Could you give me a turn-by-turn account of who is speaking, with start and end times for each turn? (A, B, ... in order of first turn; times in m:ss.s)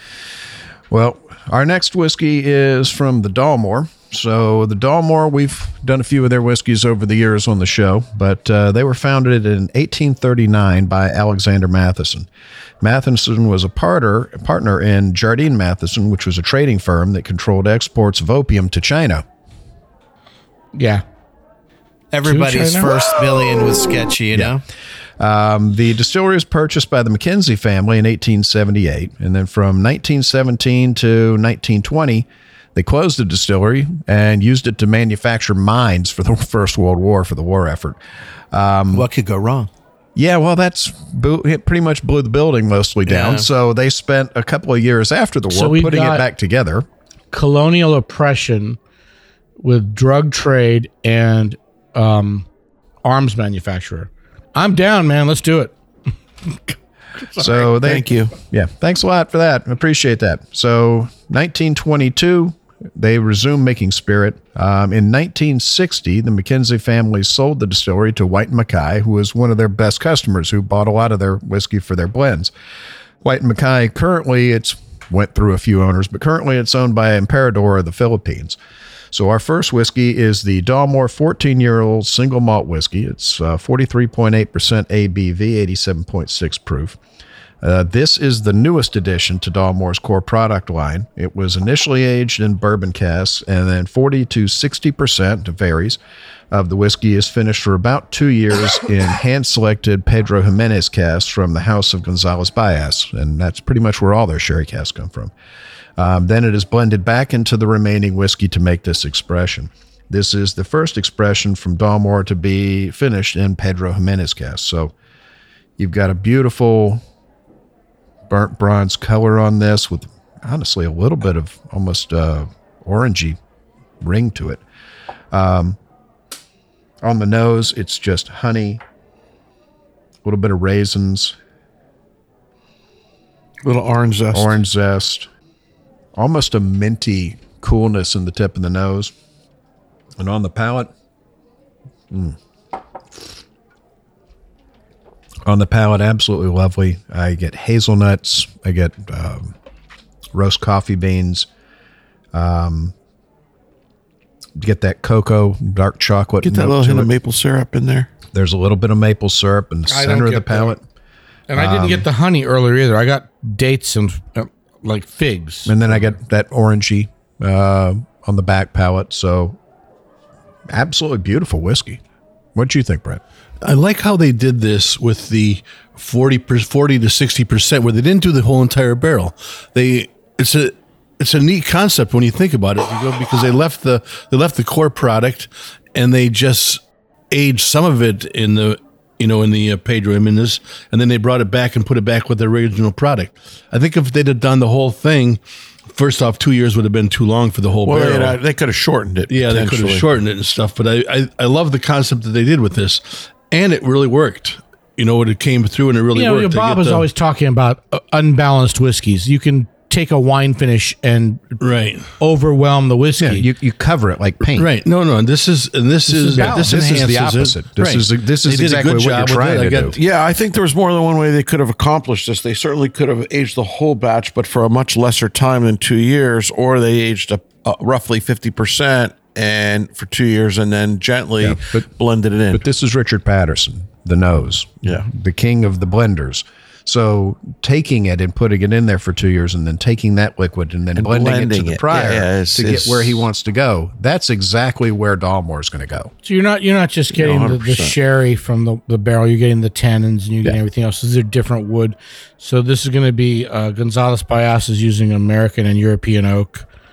0:00.9-0:12.3 A
0:12.8-0:19.2 A
0:20.8-0:21.0 B
0:22.1-0:24.6 C
0:22.2-0:23.0 B
0:25.2-0:38.0 A
0:38.5-0:39.1 A
0:38.9-0:39.7 C
0:40.2-0:46.9 A
0:43.1-0:43.5 C
0:45.5-0:46.2 B
0:47.3-0:48.8 B
0:49.6-0:52.5 B
0:53.0-0:55.7 B
0:56.4-0:57.7 B
0:57.4-1:12.5 A
0:57.8-0:58.3 D
1:13.2-1:18.6 A
1:19.1-1:27.0 A
1:27.6-1:36.0 A
1:36.5-1:45.3 A
1:46.0-1:54.9 A
1:55.8-1:57.0 A
1:58.3-2:03.4 A
2:04.0-2:04.6 A
2:05.3-2:05.8 A
2:07.0-2:08.8 A
2:10.2-2:11.4 A
2:13.6-2:14.6 D
2:14.3-2:15.3 A
2:16.2-2:19.1 A
2:20.2-2:20.9 A
2:22.1-2:22.4 A
2:25.5-2:29.6 A
2:30.3-2:31.5 A
2:32.3-2:33.0 A
2:34.6-2:37.1 A
2:36.4-2:38.1 D
2:38.3-2:40.8 A
2:39.9-2:40.8 B
2:41.5-2:45.7 B
2:41.6-2:42.1 A
2:45.7-2:49.6 A
2:50.7-2:52.0 A
2:52.6-2:53.2 A
2:53.6-3:15.4 E
3:15.9-3:18.4 E
3:17.8-3:20.1 D
3:19.3-3:27.1 E
3:26.1-3:31.6 B
3:31.6-3:32.1 E
3:32.2-3:33.5 B
3:33.2-3:34.7 A
3:34.5-3:40.0 E
3:36.1-3:36.7 B
3:36.4-3:40.0 A
3:39.9-3:52.6 D
3:51.4-3:51.9 A
3:52.5-4:06.1 A
4:01.0-4:03.2 D
4:06.2-4:16.7 B
4:07.1-4:08.0 D